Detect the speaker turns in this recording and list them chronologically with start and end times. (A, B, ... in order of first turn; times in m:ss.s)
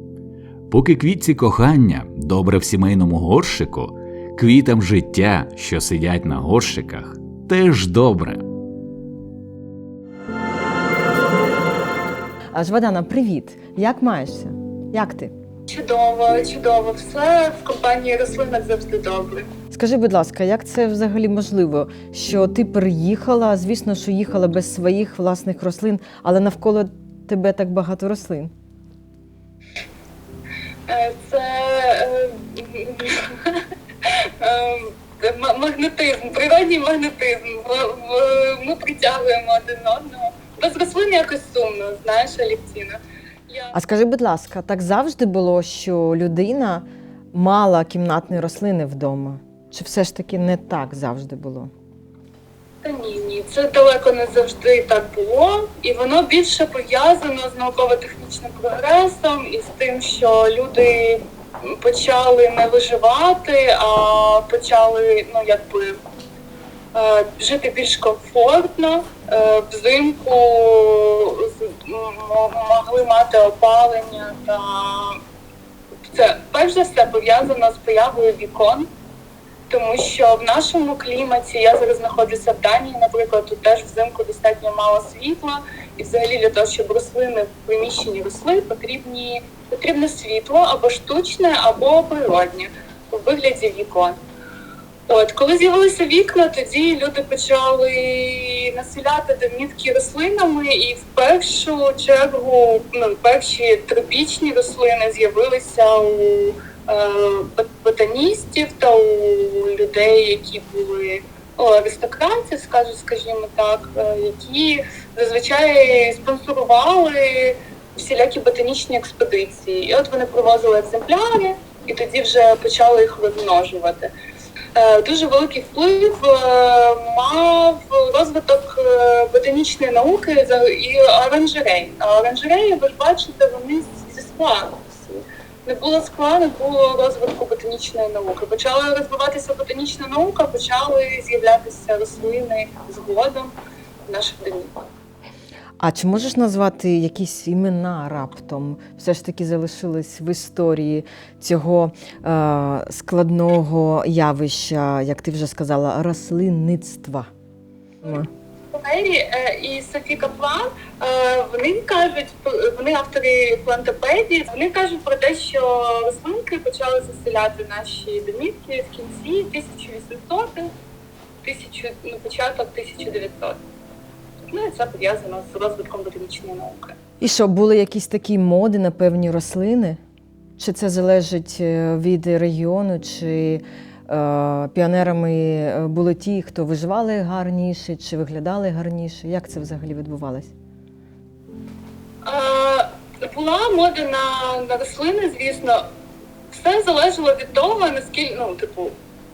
0:00.7-0:08.4 A
0:12.6-0:15.3 B
0:15.7-0:19.5 C
0:19.7-0:28.5 B
0:30.9-0:43.8 C
0:43.7-0:51.7 B
0:52.8-1:06.0 C
1:06.9-1:15.2 C
1:16.1-1:18.9 C
1:19.7-1:34.2 C
1:35.1-2:04.1 C
2:04.8-2:23.6 C
2:24.1-2:24.9 C
2:25.8-2:37.3 B
2:38.7-2:50.7 C
2:51.4-2:53.6 C
2:54.5-2:57.0 C
2:57.2-3:00.0 B
3:00.6-3:10.5 B
3:12.2-3:15.8 C
3:16.5-3:19.0 C